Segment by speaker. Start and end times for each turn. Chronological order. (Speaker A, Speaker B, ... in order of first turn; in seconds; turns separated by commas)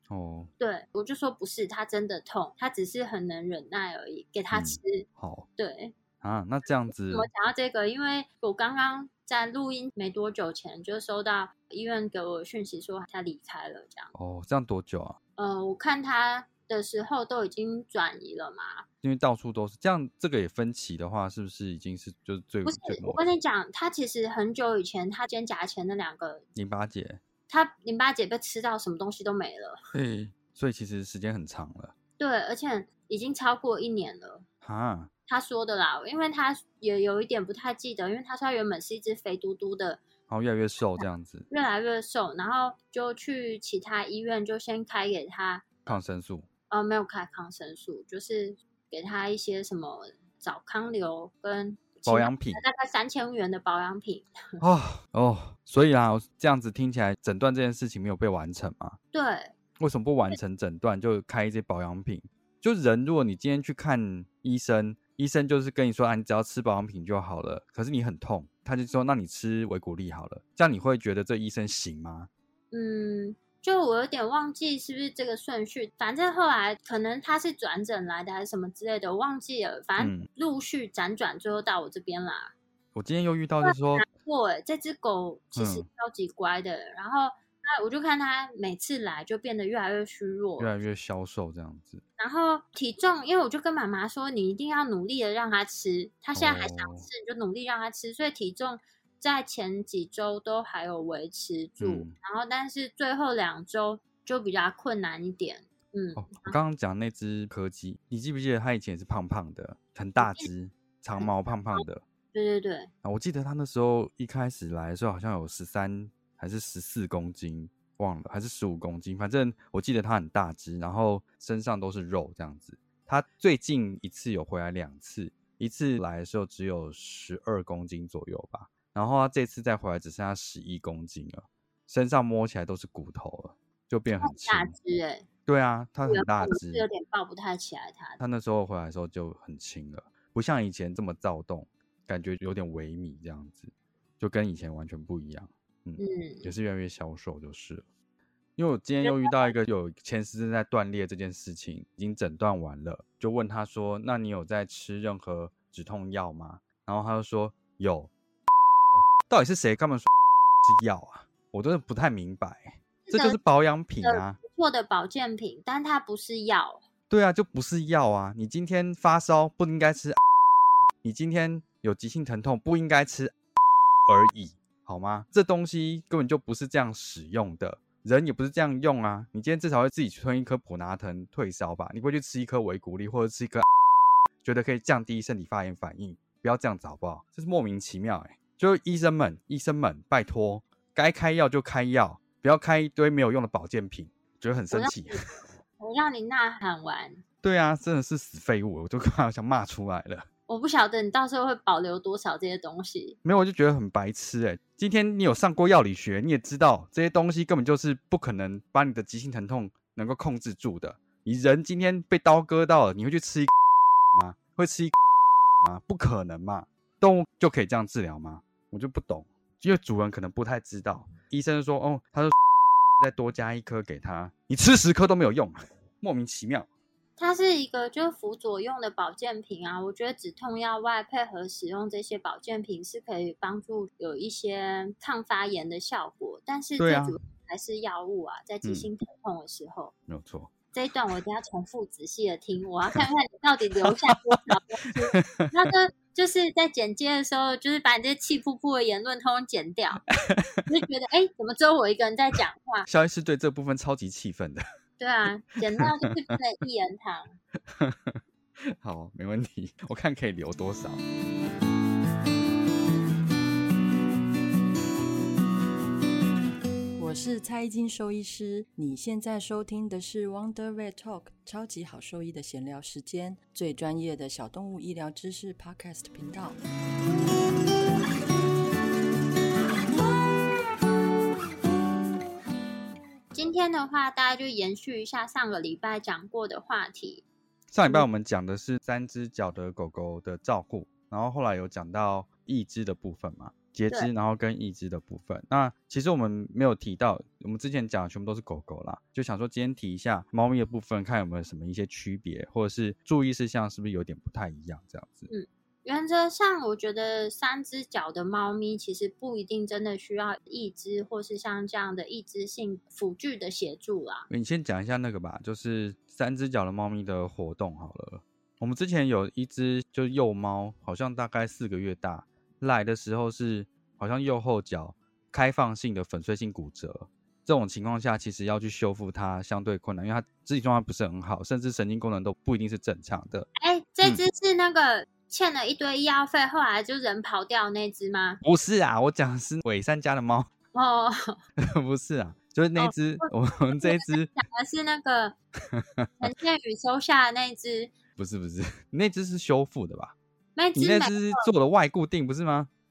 Speaker A: 0.1-0.5, Speaker B: 0.6-5.0, Speaker A: 4.5-5.5, Speaker B: 5.6-5.9, Speaker A: 6.2-7.3, Speaker B: 7.1-14.1, Speaker A: 14.1-15.2, Speaker B: 15.4-18.9, Speaker A: 19.0-23.2, Speaker B: 22.6-26.4, Speaker A: 26.5-27.2, Speaker B: 27.5-29.8, Speaker A: 29.9-31.9, Speaker B: 32.2-34.5, Speaker A: 34.6-35.1, Speaker B: 35.3-40.0, Speaker A: 40.3-41.5, Speaker B: 41.0-45.9, Speaker A: 45.9-46.5, Speaker B: 46.7-54.6, Speaker A: 52.0-52.6, Speaker A: 54.6-59.0, Speaker B: 59.1-59.5, Speaker A: 59.8-72.3, Speaker B: 72.7-82.5, Speaker A: 80.0-80.3, Speaker A: 82.9-84.0, Speaker B: 83.6-90.7, Speaker A: 85.5-85.8, Speaker A: 90.6-92.0, Speaker B: 92.2-106.5, Speaker A: 96.3-97.1, Speaker A: 101.8-102.1, Speaker A: 106.2-112.0, Speaker B: 110.2-110.5, Speaker B: 111.2-112.9, Speaker A: 113.0-134.7, Speaker B: 134.2-135.2, Speaker A: 135.5-136.9, Speaker B: 136.0-138.2, Speaker A: 138.2-147.8, Speaker B: 146.0-146.5, Speaker A: 148.6-158.1, Speaker B: 149.0-149.5, Speaker A: 158.9-160.1, Speaker A: 160.6-164.4, Speaker B: 163.1-163.4, Speaker B: 164.0-166.8, Speaker A: 167.1-170.2, Speaker A: 171.0-173.3, Speaker A: 174.1-183.7, Speaker A: 184.4-195.2, Speaker B: 194.7-197.2, Speaker A: 197.4-200.3, Speaker B: 200.5-203.2, Speaker A: 203.2-213.5, Speaker A: 214.1-214.9, Speaker A: 215.6-222.4, Speaker A: 223.0-226.7, Speaker B: 227.2-239.9, Speaker A: 236.8-237.2, Speaker A: 240.1-240.5, Speaker B: 240.7-250.0, Speaker A: 245.1-245.5, Speaker A: 250.2-250.7, Speaker B: 250.7-252.9, Speaker A: 252.9-254.6, Speaker B: 255.0-257.4, Speaker A: 257.7-261.0, Speaker C: 267.0-276.6, Speaker B: 283.3-287.2, Speaker A: 287.7-305.3, Speaker B: 305.3-314.3, Speaker A: 314.3-333.5, Speaker B: 333.6-338.4, Speaker A: 338.4-340.5, Speaker B: 340.7-341.4, Speaker A: 341.6-344.3, Speaker B: 342.8-345.4, Speaker A: 345.7-346.3, Speaker B: 346.2-347.9, Speaker A: 348.2-350.1, Speaker B: 350.6-351.5, Speaker A: 350.8-352.7